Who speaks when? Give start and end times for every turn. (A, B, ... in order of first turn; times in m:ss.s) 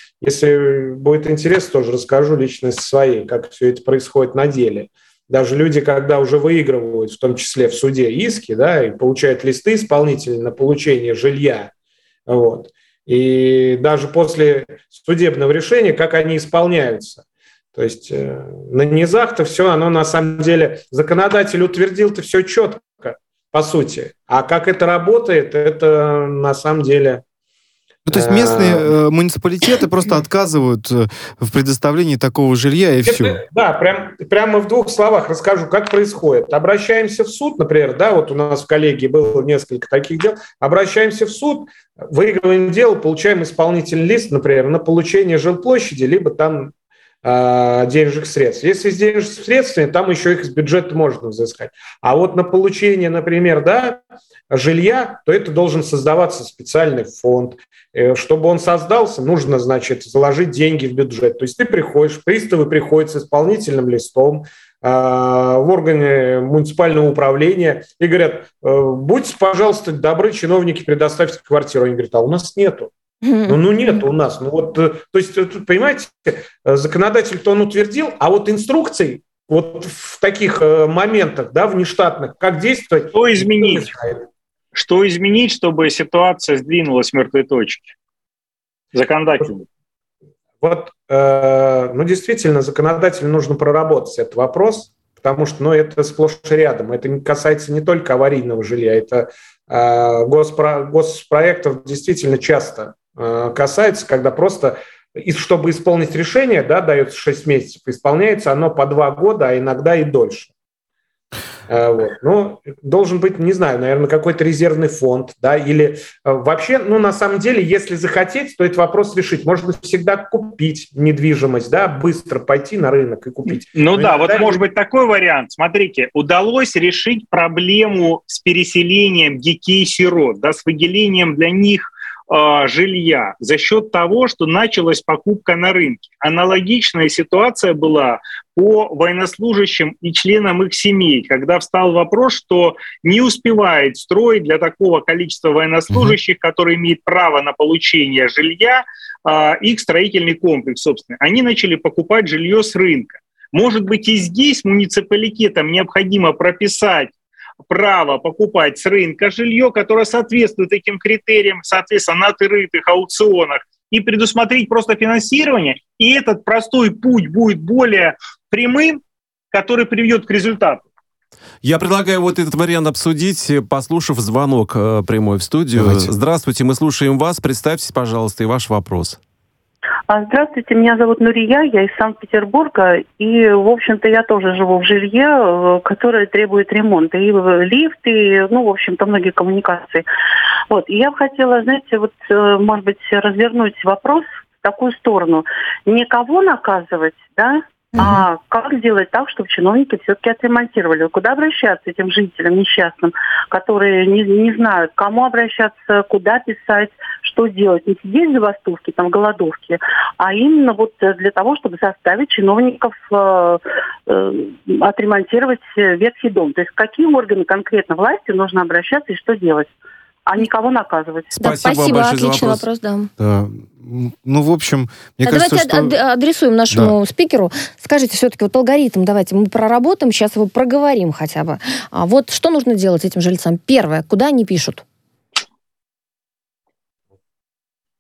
0:00.2-0:11.7 A
0:12.3-0:17.2 A
0:17.7-0:27.2 A
0:28.1-0:33.4 B
0:28.1-0:28.9 A
0:33.0-0:46.7 A
0:47.2-1:12.9 A
1:13.2-1:14.0 C
1:13.5-1:24.2 A
1:23.1-1:23.9 D
1:24.7-1:27.9 D
1:29.0-1:29.7 D
1:30.6-1:50.5 A
1:51.7-2:04.6 A
2:03.7-2:37.1 D
2:25.9-2:26.2 B
2:37.7-2:49.0 D
2:49.5-2:50.8 D
2:51.6-2:59.2 E
2:55.8-2:56.1 B
3:00.1-3:10.0 F
3:10.7-3:39.7 F
3:18.0-3:18.2 C
3:40.3-3:41.3 F
3:41.3-3:42.6 E
3:41.4-3:43.1 C
3:43.2-3:46.0 B
3:45.2-3:54.8 C
3:46.7-3:47.0 B